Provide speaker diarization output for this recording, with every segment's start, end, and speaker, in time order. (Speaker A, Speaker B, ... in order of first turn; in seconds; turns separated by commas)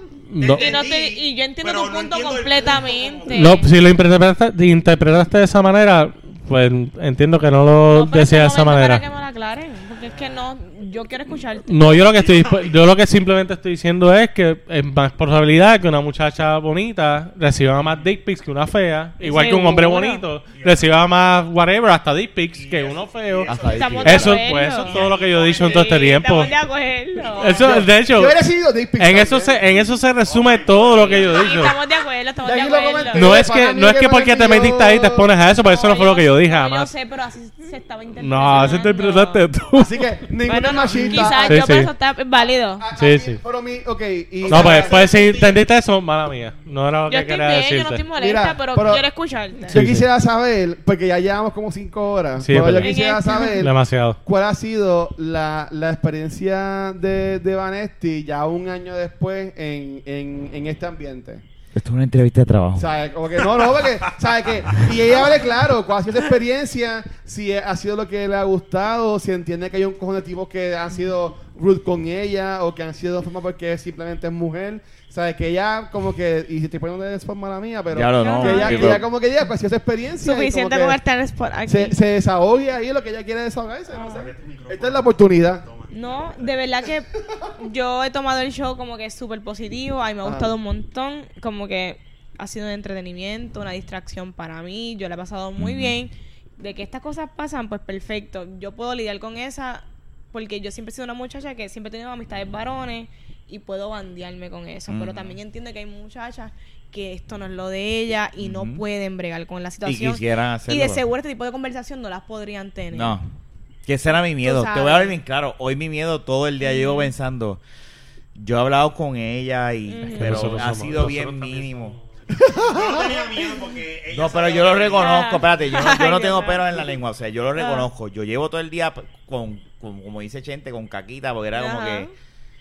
Speaker A: 0.3-0.7, Speaker B: 0.4-3.7, Speaker C: 0.5-3.7, Speaker A: 3.3-9.0, Speaker C: 7.9-12.1, Speaker B: 10.1-10.4, Speaker A: 11.7-26.5, Speaker B: 12.1-12.8, Speaker C: 19.2-20.2, Speaker B: 20.5-20.9, Speaker B: 22.5-26.5, Speaker D: 23.4-24.4, Speaker C: 23.7-27.7, Speaker B: 27.2-27.7, Speaker A: 27.4-28.4, Speaker E: 27.6-29.6, Speaker A: 29.0-31.8, Speaker B: 30.2-31.7, Speaker C: 31.2-33.3, Speaker E: 32.4-35.3, Speaker A: 33.1-36.9, Speaker C: 35.6-39.4, Speaker A: 38.2-40.0, Speaker E: 39.8-41.7, Speaker C: 40.4-42.9, Speaker B: 40.7-41.3, Speaker A: 41.4-41.9, Speaker E: 42.8-45.0, Speaker A: 42.9-43.4, Speaker B: 44.4-45.6, Speaker A: 44.5-48.0, Speaker C: 47.1-49.8, Speaker E: 48.2-49.0, Speaker A: 49.7-50.1, Speaker E: 49.7-53.7, Speaker A: 52.4-52.9, Speaker C: 52.8-53.5, Speaker A: 53.6-54.2, Speaker E: 54.2-61.4, Speaker D: 61.7-62.9, Speaker E: 62.7-81.0, Speaker D: 77.9-79.0, Speaker C: 78.2-79.0, Speaker C: 80.2-82.0, Speaker E: 81.7-85.6, Speaker B: 84.0-86.5, Speaker C: 85.9-87.1, Speaker C: 87.6-113.2, Speaker E: 90.2-90.5, Speaker D: 95.6-96.0, Speaker D: 104.9-105.4, Speaker D: 108.4-108.8, Speaker D: 109.8-111.0, Speaker D: 112.9-113.3, Speaker D: 113.8-117.6, Speaker C: 114.4-115.2, Speaker C: 116.6-117.1, Speaker D: 118.3-122.0, Speaker C: 119.9-120.6, Speaker A: 120.1-121.3, Speaker B: 120.6-125.3, Speaker E: 122.3-123.2, Speaker D: 124.1-132.1, Speaker C: 125.0-126.8, Speaker C: 127.5-127.9, Speaker C: 131.5-132.1